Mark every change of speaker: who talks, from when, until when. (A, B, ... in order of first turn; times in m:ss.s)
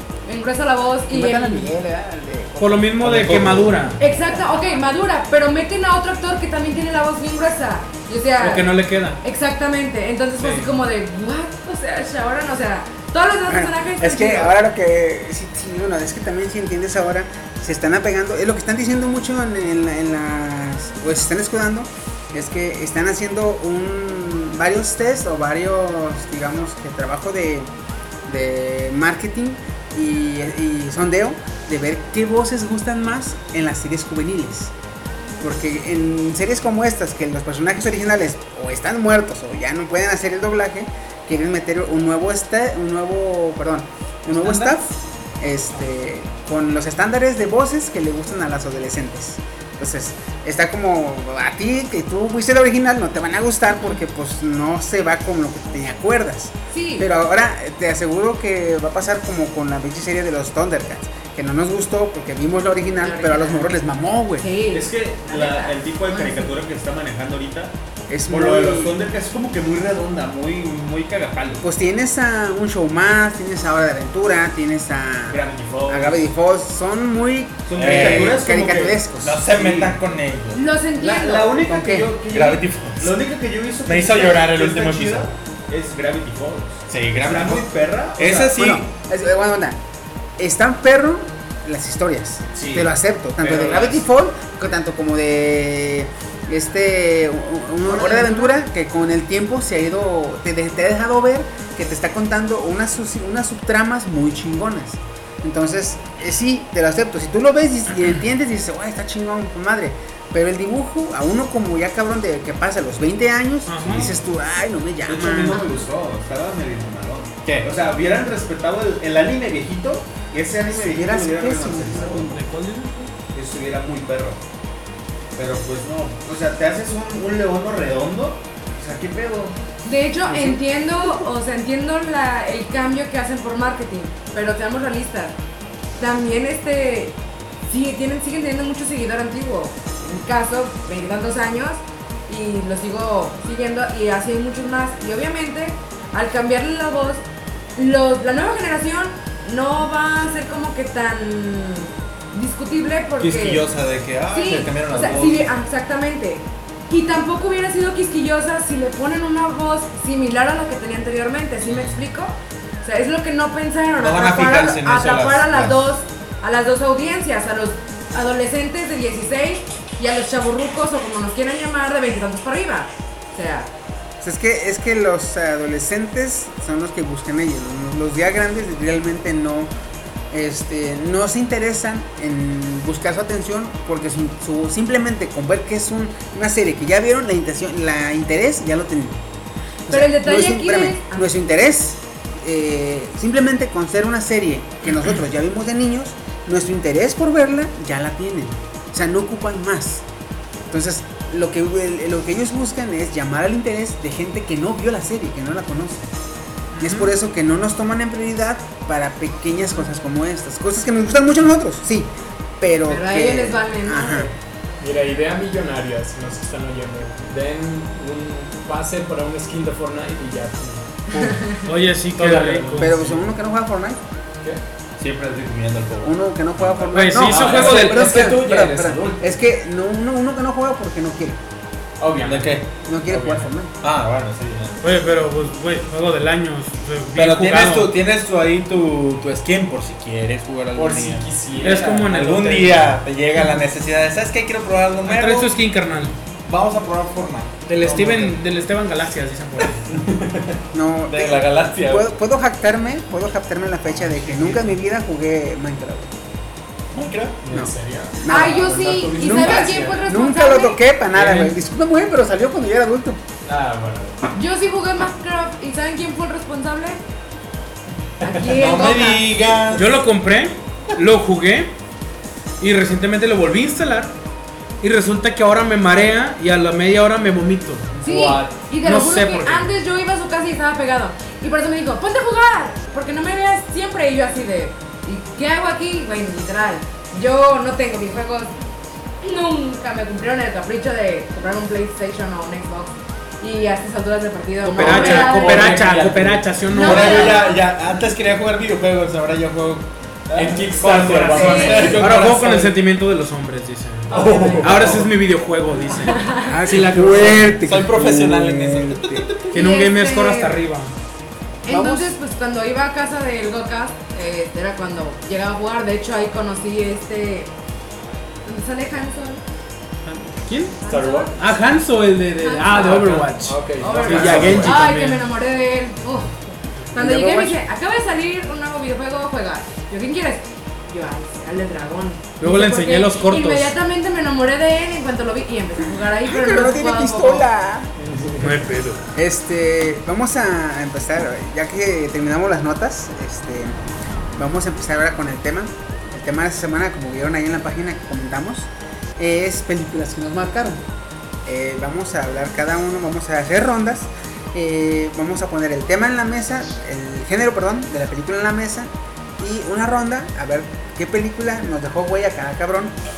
0:00.2-0:01.7 A
0:01.1-0:03.0 B
0:02.6-0:04.0 C
0:03.0-0:03.7 D
0:03.0-0:03.8 E
0:04.0-0:14.6 A
0:08.4-0:09.2 C
0:10.4-0:10.7 C
0:13.5-0:27.7 B
0:28.2-0:34.7 B
0:35.4-1:04.5 B
0:44.4-0:44.7 C
0:56.7-0:57.1 A
1:03.0-1:03.7 A
1:04.4-1:06.6 A
1:04.7-1:07.7 E
1:08.1-1:09.0 B
1:08.3-1:11.6 E
1:11.6-1:19.6 B
1:15.3-1:16.2 E
1:17.7-1:20.0 E
1:17.8-1:18.4 D
1:19.2-1:20.6 D
1:20.5-1:21.6 A
1:21.0-1:28.6 E
1:21.6-1:22.1 B
1:22.3-1:23.1 D
1:23.8-1:25.3 D
1:26.9-1:28.9 D
1:28.4-1:29.8 B
1:30.4-1:55.6 B
1:32.5-1:34.0 E
1:37.9-1:38.6 A
1:53.7-1:54.1 C
1:55.0-2:02.3 E
1:55.5-1:55.8 A
2:00.7-2:02.4 B
2:02.2-2:03.1 C
2:03.3-2:04.4 E
2:05.4-2:09.6 E
2:09.8-2:15.3 A
2:10.2-2:10.6 B
2:16.0-2:27.2 A
2:27.8-2:33.7 A
2:33.2-2:35.5 D
2:34.3-2:53.7 A
2:41.7-2:42.0 D
2:44.0-2:45.8 D
2:54.2-2:59.7 B
3:00.3-3:09.2 B
3:09.9-3:11.3 A
3:09.9-3:20.0 B
3:20.7-3:26.0 B
3:26.7-3:27.1 C
3:26.8-3:34.3 B
3:32.9-3:34.3 A
3:34.8-3:41.3 F
3:41.1-3:41.6 A
3:41.6-3:43.0 C
3:42.1-3:43.2 F
3:42.8-3:44.0 B
3:45.0-3:47.8 D
3:46.0-3:51.4 B
3:46.9-3:48.2 C
3:47.2-3:49.3 F
3:52.0-3:53.5 F
3:52.2-3:52.6 D
3:52.8-3:53.7 B
3:53.8-3:54.8 D
3:54.8-3:57.9 C
3:57.1-4:05.6 D
4:00.7-4:02.2 F
4:01.6-4:03.6 C
4:05.0-4:06.1 C
4:06.4-4:08.4 D
4:07.6-4:10.0 C
4:09.9-4:10.6 F
4:10.7-4:16.1 B
4:11.1-4:12.1 D
4:16.9-4:17.4 D
4:17.4-4:20.0 F
4:17.5-4:23.2 B
4:18.3-4:20.8 A
4:21.1-4:21.5 F
4:23.4-4:24.2 F
4:24.3-4:27.0 A
4:28.2-4:28.6 F
4:28.2-4:29.3 A
4:28.5-4:30.0 D
4:29.7-4:31.7 C
4:32.6-4:34.1 C
4:34.8-4:37.9 C
4:38.0-4:38.5 F
4:38.0-4:48.5 A
4:38.8-4:39.7 C
4:49.2-4:55.9 A
4:54.6-4:57.4 C
4:54.8-4:56.6 F
4:56.7-4:57.6 A
4:56.7-5:02.7 D
5:00.3-5:02.5 F
5:01.3-5:02.0 A
5:01.4-5:06.2 C
5:04.1-5:05.1 F
5:04.2-5:04.8 A
5:06.0-5:06.8 A
5:06.4-5:09.3 B
5:06.9-5:09.6 D
5:09.5-5:10.6 A
5:09.5-5:10.9 C
5:11.6-5:17.5 A
5:11.7-5:12.1 B
5:18.4-5:19.4 A
5:20.0-5:20.8 C
5:20.8-5:21.5 A
5:20.9-5:21.3 F
5:21.3-5:25.2 C
5:22.4-5:22.8 A
5:22.7-5:24.8 F
5:23.7-5:37.5 A
5:24.1-5:24.5 D
5:26.9-5:27.6 B
5:32.4-5:33.7 C
5:36.2-5:37.9 B
5:38.0-5:38.7 F
5:38.4-5:39.0 C
5:39.1-5:43.8 B
5:44.4-5:50.8 B
5:51.4-6:02.9 B